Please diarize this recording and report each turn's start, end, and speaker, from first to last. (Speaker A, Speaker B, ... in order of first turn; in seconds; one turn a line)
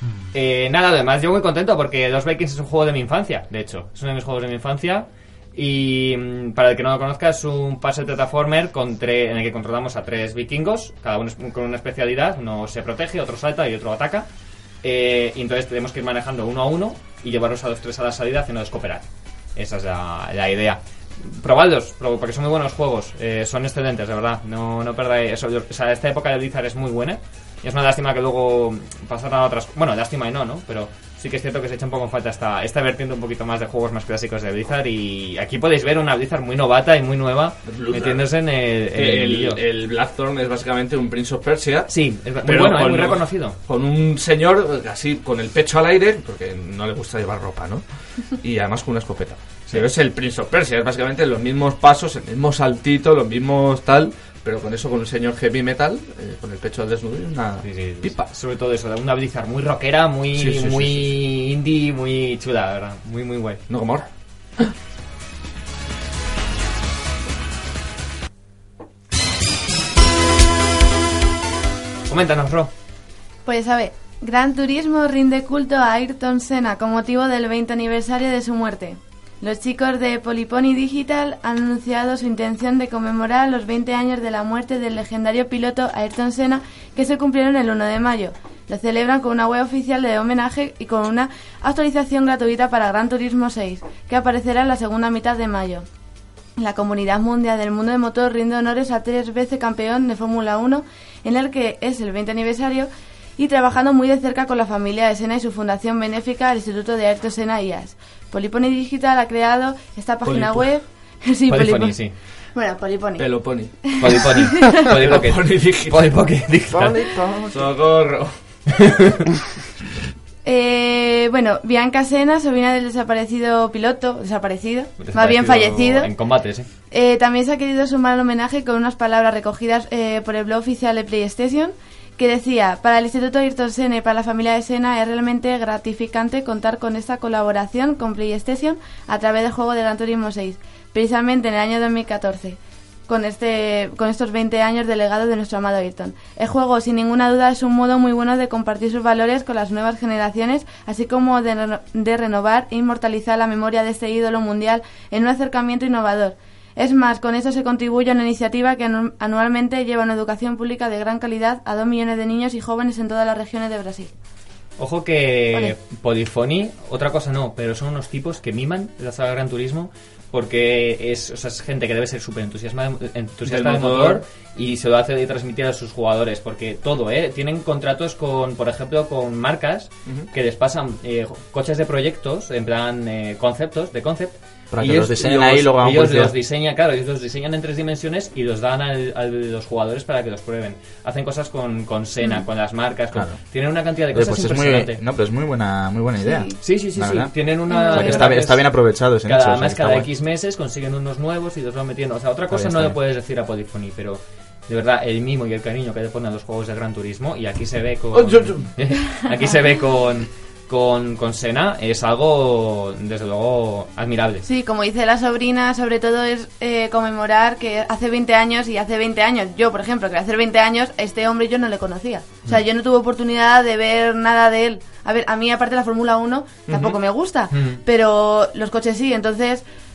Speaker A: 0.3-14.3
Speaker A: 14.8-39.6
Speaker B: 37.7-38.3
Speaker B: 38.9-41.9
Speaker A: 41.9-43.6
Speaker B: 42.4-47.8
Speaker B: 48.4-58.3
Speaker A: 57.6-63.6
Speaker B: 60.3-61.2
Speaker B: 63.7-64.1
Speaker A: 72.1-72.7
Speaker C: 73.5-95.9
Speaker C: 96.6-112.0
Speaker B: 110.2-110.7
Speaker A: 111.5-112.2
Speaker C: 112.5-114.9
Speaker B: 113.2-114.0
Speaker A: 114.0-117.1
Speaker B: 114.8-116.2
Speaker D: 116.8-117.6
Speaker B: 117.1-118.3
Speaker A: 118.7-119.3
Speaker C: 120.5-126.1
Speaker A: 125.0-126.7
Speaker C: 126.9-164.1
Speaker A: 164.8-195.0
Speaker B: 173.4-174.2
Speaker D: 184.7-186.4
Speaker D: 193.1-193.4
Speaker D: 194.1-200.1
Speaker C: 196.2-196.6
Speaker A: 196.6-214.5
Speaker C: 197.7-198.3
Speaker D: 202.5-203.0
Speaker B: 208.1-208.7
Speaker C: 214.4-229.6
Speaker A: 226.7-227.0
Speaker A: 227.5-227.8